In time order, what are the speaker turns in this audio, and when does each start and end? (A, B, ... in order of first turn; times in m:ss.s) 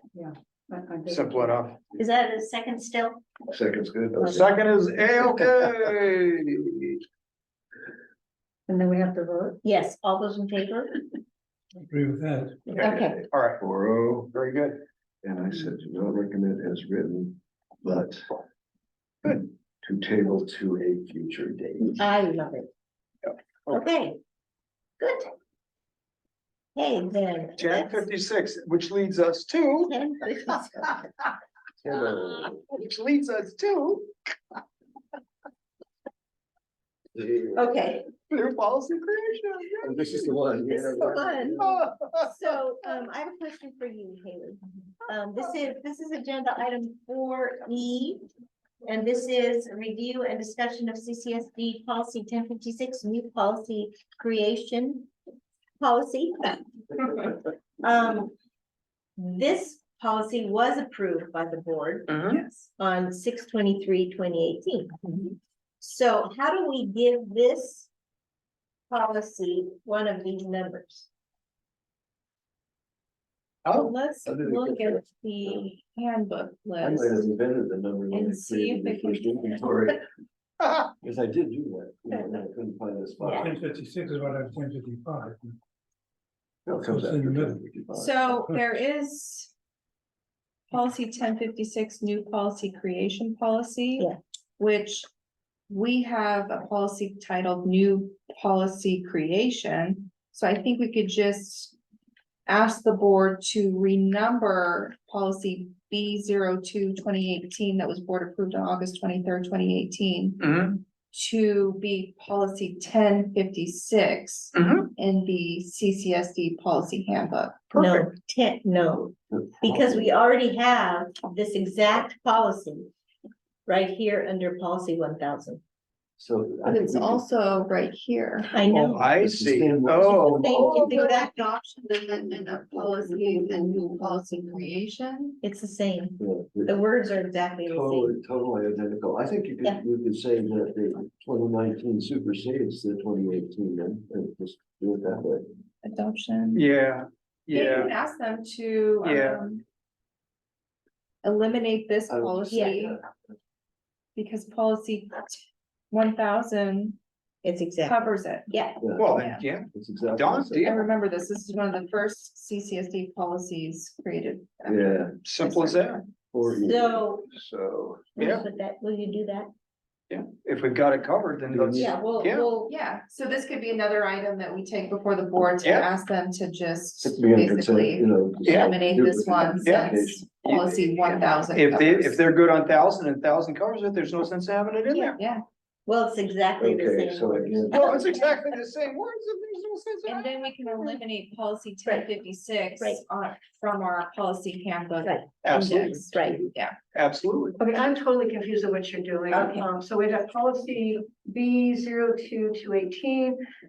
0:00.2-0:01.7 A
0:01.1-0:01.8 B
0:01.9-0:03.2 C
0:03.5-0:04.5 D
0:04.3-0:07.0 B
0:08.7-0:09.6 A
0:09.6-0:11.0 C
0:11.9-0:12.7 E
0:12.7-0:13.6 B
0:12.8-0:13.2 C
0:12.8-0:14.3 D
0:14.3-0:14.8 B
0:15.2-0:18.4 D
0:19.8-0:22.0 D
0:22.0-0:22.7 C
0:23.7-0:24.2 C
0:25.0-0:25.3 C
0:26.8-0:28.0 C
0:27.6-0:30.0 B
0:29.8-0:31.1 C
0:31.8-0:32.6 D
0:32.6-0:34.1 B
0:37.2-0:37.6 D
0:37.5-0:38.1 C
0:38.3-0:40.3 B
0:39.8-0:41.9 D
0:40.7-0:41.7 C
0:41.6-0:42.3 B
0:42.2-0:48.2 C
0:48.8-0:55.1 C
0:55.8-0:58.3 C
0:59.2-1:02.2 C
1:02.1-1:02.4 B
1:02.3-1:02.7 F
1:02.8-1:04.9 C
1:05.8-1:07.9 C
1:08.9-1:11.1 C
1:13.6-1:13.9 B
1:13.7-1:17.3 F
1:14.2-1:15.6 D
1:16.8-1:20.0 D
1:18.1-1:19.7 F
1:21.0-1:23.6 D
1:23.2-1:25.6 E
1:26.7-1:28.4 D
1:26.9-1:27.6 E
1:27.9-1:29.5 F
1:30.7-1:35.1 F
1:35.7-1:41.7 F
1:42.4-1:50.5 F
1:50.4-1:50.8 B
1:51.1-1:57.8 F
1:54.5-1:54.9 B
1:57.7-2:02.9 C
1:59.3-2:00.1 D
2:03.7-2:05.6 C
2:06.2-2:07.2 D
2:06.7-2:08.6 F
2:08.5-2:09.1 C
2:08.6-2:10.5 B
2:09.2-2:10.9 D
2:10.1-2:11.3 C
2:10.5-2:15.4 F
2:15.4-2:18.2 C
2:16.2-2:16.8 D
2:17.7-2:25.5 D
2:25.8-2:26.7 F
2:26.6-2:27.9 B
2:27.5-2:29.6 F
2:29.0-2:29.4 B
2:31.2-2:33.0 F
2:32.1-2:33.1 D
2:32.5-2:32.8 C
2:34.2-2:37.0 F
2:37.4-2:38.8 C
2:37.8-2:39.4 F
2:38.8-2:39.2 D
2:39.0-2:40.8 B
2:39.7-2:40.8 D
2:40.6-2:46.1 F
2:44.6-2:45.2 D
2:45.2-2:46.0 B
2:46.3-2:48.1 D
2:46.6-2:47.3 C
2:48.2-2:49.5 C
2:48.2-2:48.5 B
2:50.1-2:52.5 B
2:51.5-2:52.0 D
2:51.8-2:52.7 C
2:52.0-3:02.2 F
2:57.0-3:01.4 D
2:58.5-2:58.7 B
2:59.6-3:00.0 B
3:01.5-3:05.2 B
3:04.9-3:05.2 C
3:05.2-3:05.4 F
3:05.9-3:08.4 C
3:06.6-3:08.0 D
3:07.7-3:10.2 B
3:10.1-3:16.8 F
3:10.7-3:11.0 C
3:15.0-3:16.5 C
3:15.4-3:16.1 B
3:16.9-3:17.6 B
3:17.6-3:23.4 A
3:19.3-3:19.7 C